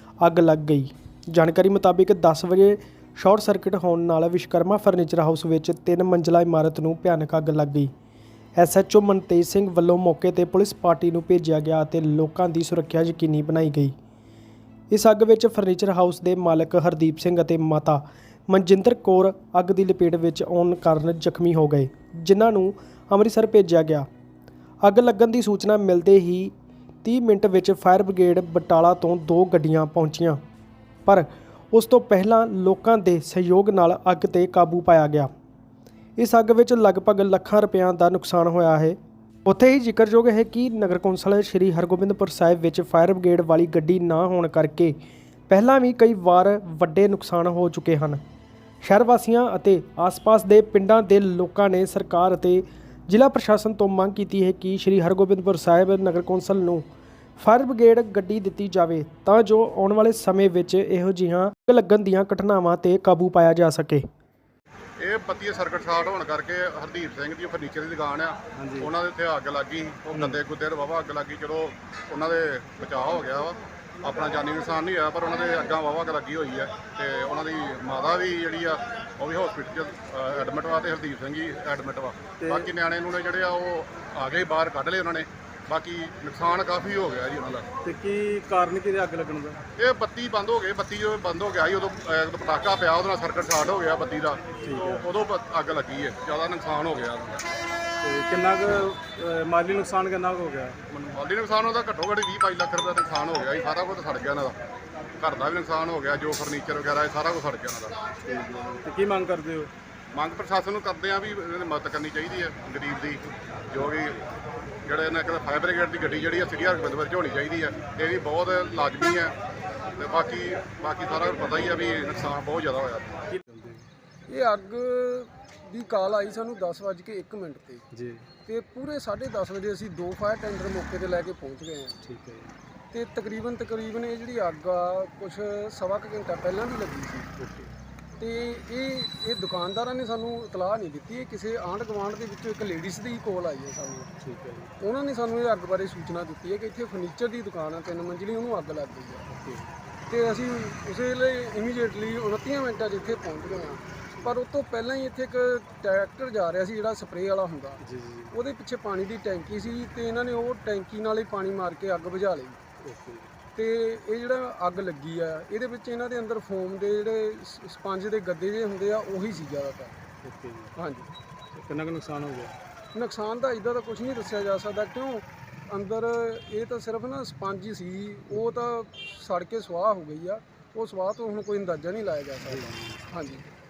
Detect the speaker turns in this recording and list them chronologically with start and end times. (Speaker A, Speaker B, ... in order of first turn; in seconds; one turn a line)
Speaker A: 0.2-7.9
Speaker A: 8.6-13.9
Speaker A: 14.9-24.1
Speaker A: 24.8-30.4
Speaker A: 31.1-35.3
Speaker A: 36.2-45.0
Speaker A: 45.5-48.2
Speaker A: 48.8-56.9
Speaker A: 57.4-64.1
Speaker B: 65.0-87.7
Speaker C: 68.6-68.9
Speaker C: 82.4-82.7
Speaker C: 87.8-89.6
Speaker B: 89.8-97.5
Speaker C: 94.6-95.1
Speaker C: 98.0-100.8
Speaker B: 100.9-104.6
Speaker B: 105.2-108.0
Speaker C: 108.2-109.7
Speaker B: 110.1-114.2
Speaker B: 114.8-119.3
Speaker B: 120.0-123.2
Speaker C: 123.3-123.9
Speaker D: 124.3-127.9
Speaker C: 127.9-128.3
Speaker D: 128.5-132.0
Speaker C: 132.0-132.6
Speaker D: 132.9-137.4
Speaker C: 137.4-137.7
Speaker D: 138.2-144.2
Speaker C: 144.2-144.7
Speaker D: 144.8-149.3
Speaker C: 149.3-149.7
Speaker D: 150.1-162.7
Speaker C: 157.8-158.3
Speaker C: 162.8-163.3
Speaker D: 163.6-170.0
Speaker C: 170.2-170.7
Speaker D: 170.8-171.1
Speaker C: 171.5-172.6
Speaker D: 172.9-183.5
Speaker C: 182.4-183.0